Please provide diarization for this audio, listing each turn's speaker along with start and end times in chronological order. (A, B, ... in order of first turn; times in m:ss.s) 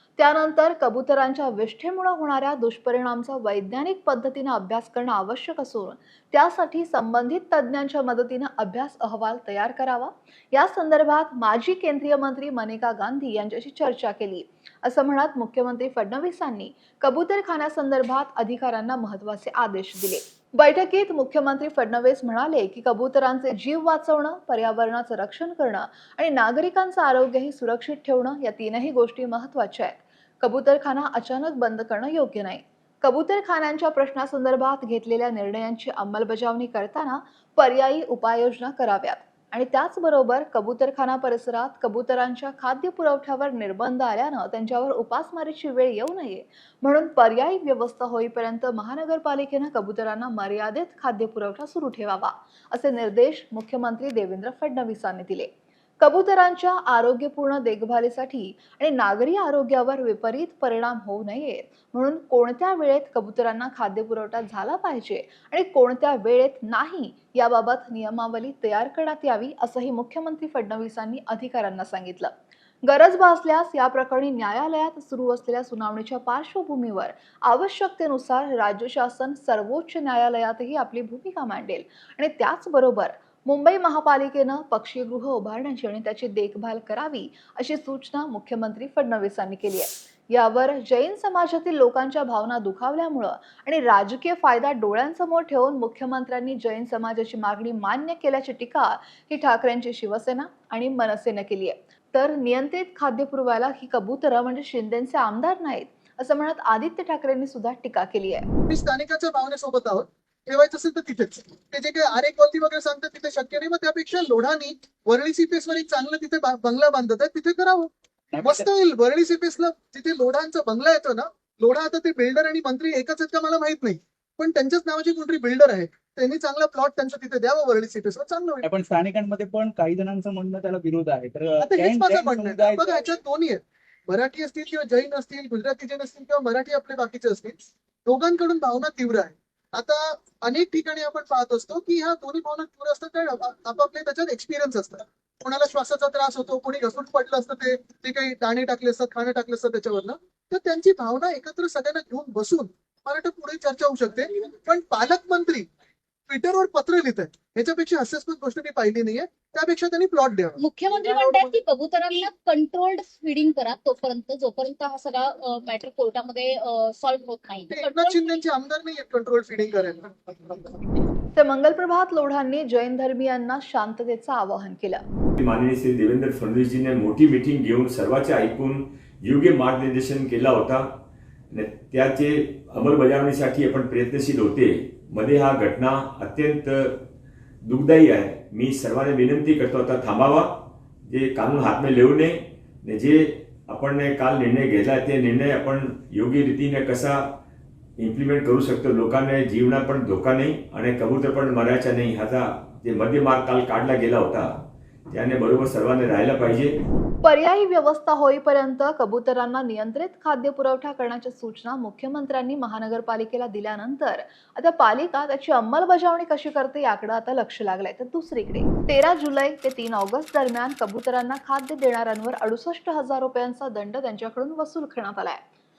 0:00.2-0:55.5 A
0:56.0-1:12.3 A
1:12.8-1:48.5 A
1:48.7-2:08.7 B
1:58.3-1:58.7 C
2:08.6-2:13.1 C
2:11.6-2:35.7 B
2:36.3-2:41.5 B
2:40.6-2:48.4 D
2:47.7-2:50.8 B
2:51.4-2:55.0 A
2:55.4-3:00.9 E
3:01.5-3:07.0 E
3:07.6-3:17.2 E
3:18.0-3:24.5 E
3:25.1-3:26.8 E
3:27.2-3:45.4 A